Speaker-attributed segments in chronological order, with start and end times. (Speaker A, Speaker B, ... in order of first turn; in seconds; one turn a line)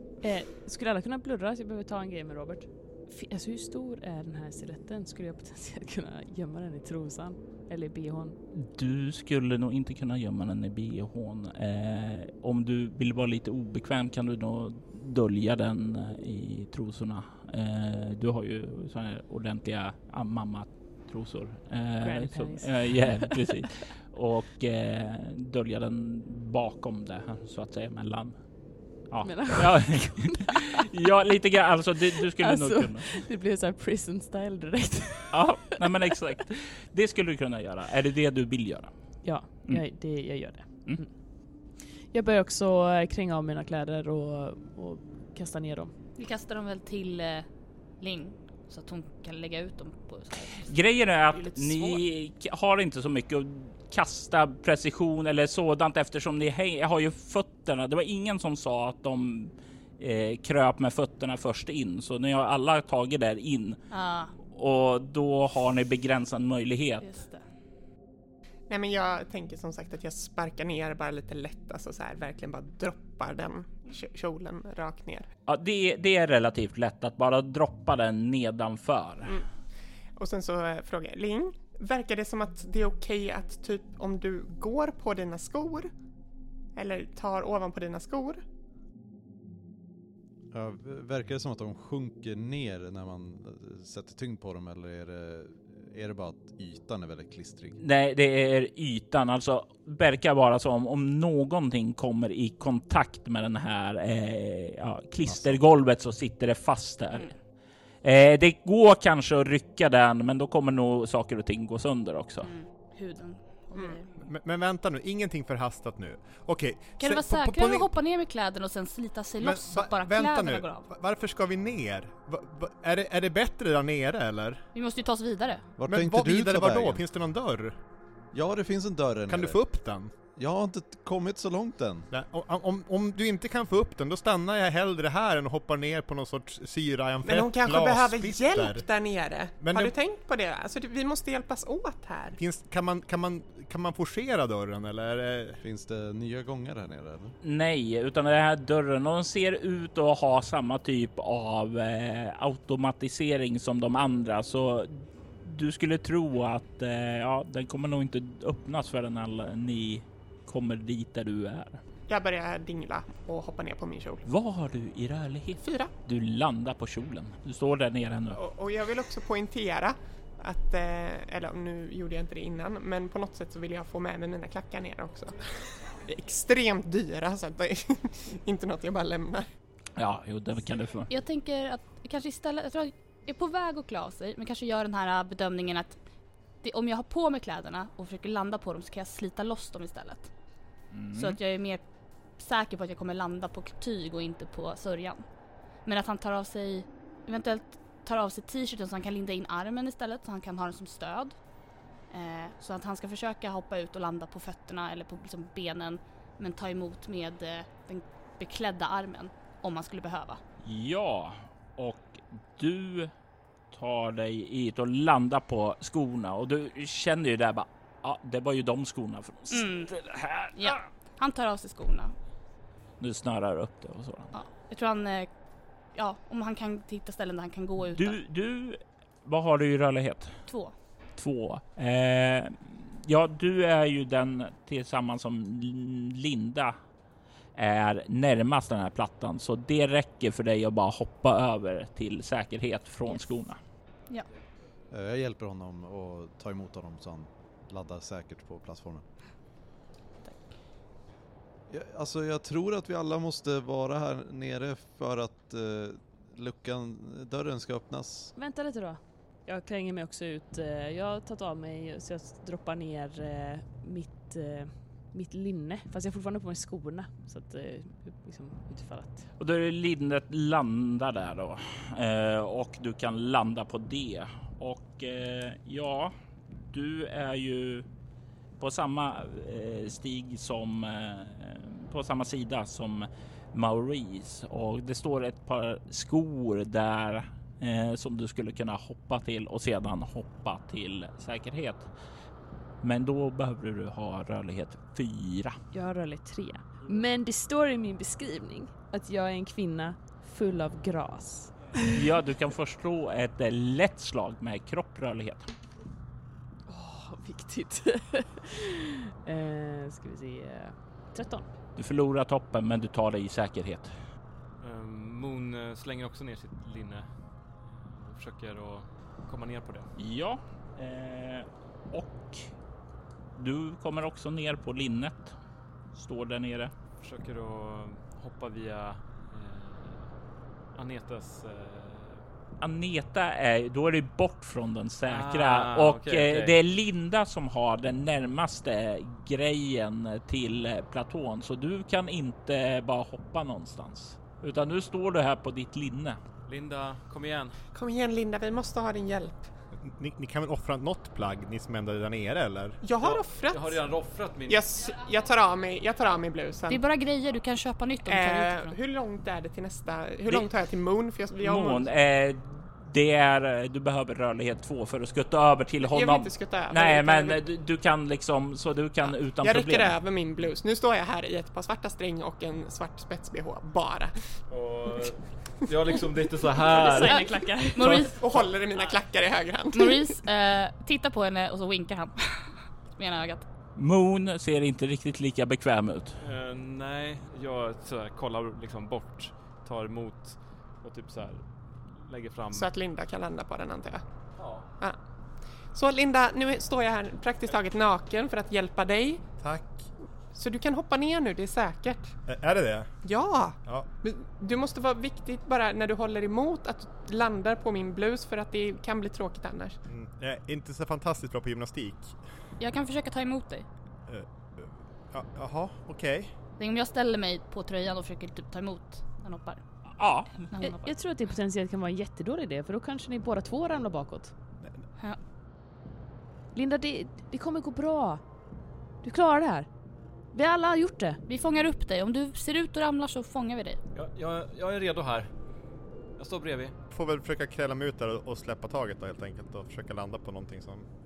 Speaker A: 0.2-8.4
Speaker B: 8.5-28.4
Speaker A: 22.0-23.7
Speaker B: 29.1-33.1
Speaker A: 29.2-30.8
Speaker A: 32.1-36.1
Speaker B: 35.3-38.9
Speaker A: 39.2-41.1
Speaker A: 42.1-45.9
Speaker C: 46.2-47.5
Speaker C: 48.0-50.7
Speaker B: 50.6-63.8
Speaker C: 63.9-64.3
Speaker B: 64.4-67.2
Speaker C: 67.0-67.4
Speaker D: 68.7-75.3
Speaker B: 75.5-79.4
Speaker D: 80.2-85.9
Speaker D: 86.8-88.4
Speaker E: 90.5-97.8
Speaker B: 97.8-107.3
Speaker E: 105.3-105.6
Speaker B: 108.0-112.5
Speaker C: 112.4-114.1
Speaker F: 114.2-117.9
Speaker C: 117.0-120.9
Speaker F: 119.4-124.6
Speaker C: 124.8-125.7
Speaker E: 125.8-127.0
Speaker F: 125.9-127.8
Speaker E: 128.3-129.6
Speaker F: 129.3-130.1
Speaker E: 130.4-132.1
Speaker F: 132.1-138.9
Speaker D: 137.2-142.4
Speaker F: 139.6-139.9
Speaker F: 142.4-145.6
Speaker E: 145.6-147.3
Speaker B: 147.4-161.8
Speaker D: 162.1-164.2
Speaker B: 164.2-168.4
Speaker D: 165.6-165.9
Speaker D: 168.3-179.5
Speaker B: 180.0-181.1
Speaker C: 181.1-186.0
Speaker C: 186.6-190.3
Speaker B: 190.9-191.4
Speaker C: 191.1-191.8
Speaker C: 192.4-195.2
Speaker C: 195.9-201.4
Speaker C: 202.1-210.4
Speaker B: 210.6-213.1
Speaker B: 213.7-220.8
Speaker C: 219.5-219.9
Speaker C: 220.6-222.2
Speaker B: 223.0-224.3
Speaker C: 224.3-225.3
Speaker C: 225.9-228.2
Speaker B: 227.9-230.3
Speaker C: 230.5-230.7
Speaker B: 231.2-236.8
Speaker B: 237.6-243.6
Speaker E: 244.9-249.0
Speaker E: 251.7-258.3
Speaker A: 258.4-269.3
Speaker B: 269.4-276.1
Speaker B: 276.6-277.9
Speaker B: 278.6-291.9
Speaker B: 292.8-295.6
Speaker A: 295.7-302.1
Speaker B: 301.9-305.5
Speaker A: 306.7-311.5
Speaker B: 311.8-313.9
Speaker G: 314.6-317.1
Speaker G: 317.6-319.9
Speaker B: 320.0-322.5
Speaker B: 323.4-325.4
Speaker B: 325.9-326.7
Speaker G: 327.0-330.1
Speaker G: 330.7-332.3
Speaker B: 332.6-346.2
Speaker G: 335.1-336.6
Speaker G: 346.5-347.6
Speaker D: 347.7-349.5
Speaker F: 349.8-352.8
Speaker D: 352.8-353.8
Speaker G: 353.0-354.6
Speaker D: 354.5-356.8
Speaker C: 356.7-358.8
Speaker D: 358.1-361.9
Speaker B: 361.4-370.0
Speaker D: 365.8-367.4
Speaker D: 369.1-374.1
Speaker G: 374.5-378.4
Speaker A: 376.7-378.0
Speaker C: 376.9-378.2
Speaker D: 378.2-380.2
Speaker C: 379.7-383.4
Speaker B: 383.8-386.2
Speaker G: 386.2-392.7
Speaker D: 392.5-394.0
Speaker G: 394.4-394.7
Speaker D: 395.7-399.2
Speaker F: 399.4-399.9
Speaker D: 400.3-402.2
Speaker F: 402.3-402.9
Speaker D: 403.0-409.8
Speaker F: 403.6-403.9
Speaker F: 409.9-412.2
Speaker C: 412.6-413.7
Speaker F: 414.1-416.3
Speaker C: 416.6-419.6
Speaker B: 420.0-420.4
Speaker C: 420.5-420.9
Speaker A: 420.6-424.3
Speaker A: 426.5-428.2
Speaker A: 429.0-429.7
Speaker A: 430.3-431.2
Speaker C: 431.3-433.8
Speaker G: 433.9-435.3
Speaker G: 436.2-436.8
Speaker F: 436.9-440.9